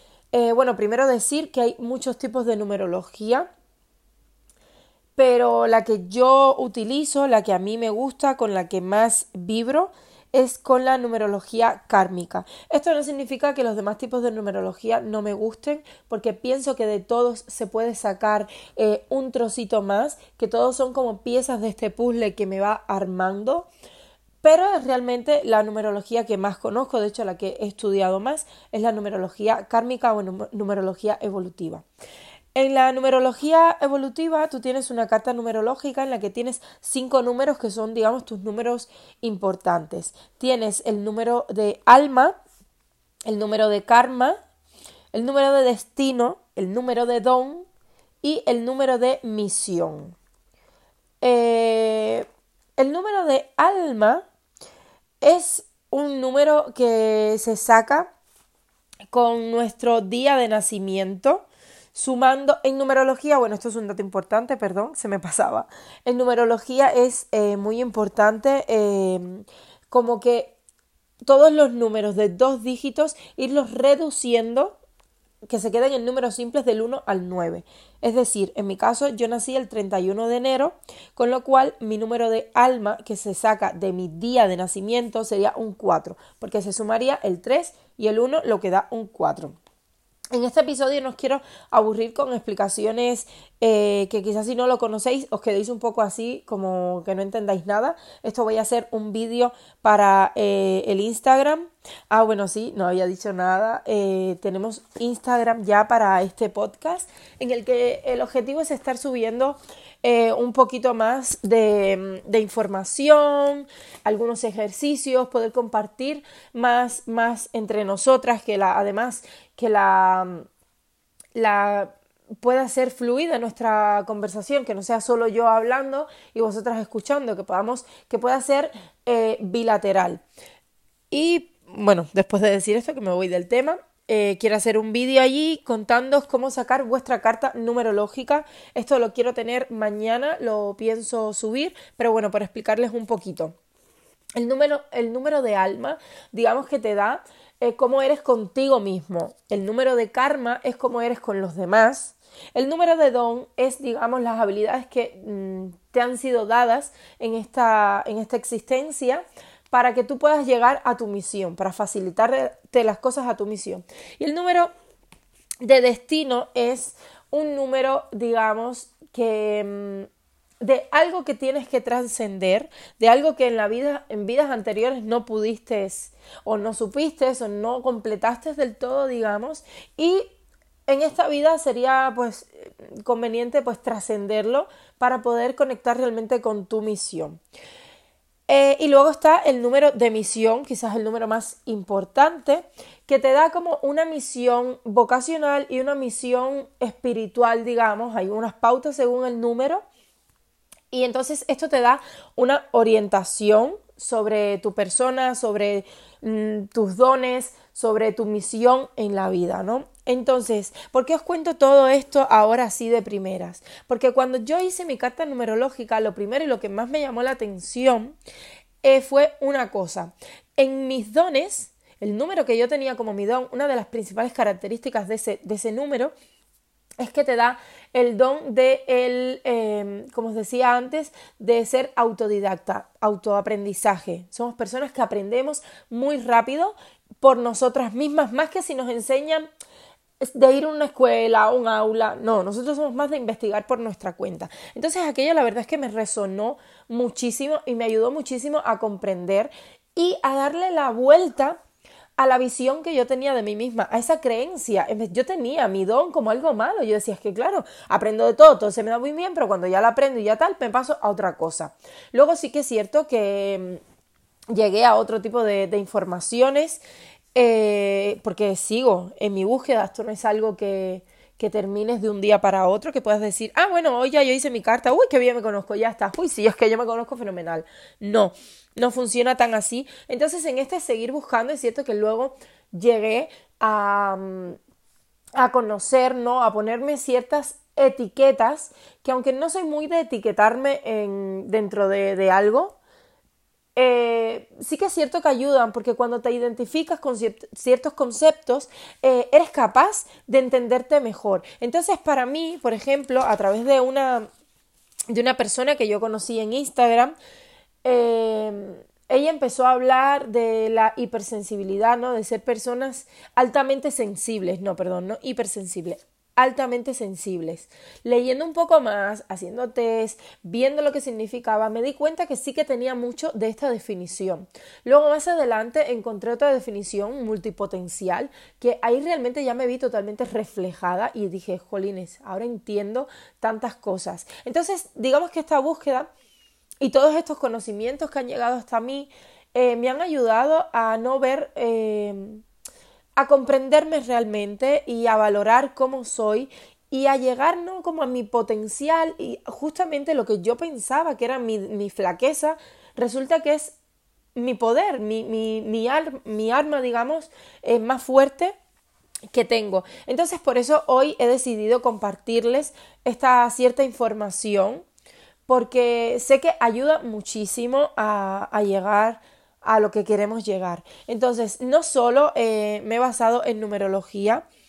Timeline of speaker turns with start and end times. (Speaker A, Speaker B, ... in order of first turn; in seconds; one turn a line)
Speaker A: 0.3-3.5
Speaker A: 5.2-23.7
Speaker A: 24.4-31.8
Speaker A: 32.5-42.3
Speaker A: 43.3-44.4
Speaker A: 45.1-47.7
Speaker A: 48.2-50.1
Speaker A: 51.2-52.2
Speaker A: 52.8-54.2
Speaker A: 55.2-58.1
Speaker A: 59.1-70.6
Speaker A: 71.3-74.8
Speaker A: 75.5-89.6
Speaker A: 90.3-120.5
Speaker A: 121.3-130.2
Speaker A: 131.1-143.6
Speaker A: 144.4-164.7
Speaker A: 165.6-170.1
Speaker A: 170.6-180.2
Speaker A: 180.9-187.4
Speaker A: 188.5-199.8
Speaker A: 200.9-218.1
Speaker A: 218.8-226.1
Speaker A: 227.0-239.5
Speaker A: 240.2-251.6
Speaker A: 252.2-263.8
Speaker A: 264.5-266.8
Speaker A: 267.3-284.6
Speaker A: 285.4-292.8
Speaker A: 293.8-304.3
Speaker A: 305.1-307.1
Speaker A: 307.8-336.1
Speaker A: 336.8-342.4
Speaker A: 343.2-353.7
Speaker A: 354.4-358.5
Speaker A: 359.3-364.8
Speaker A: 365.5-374.4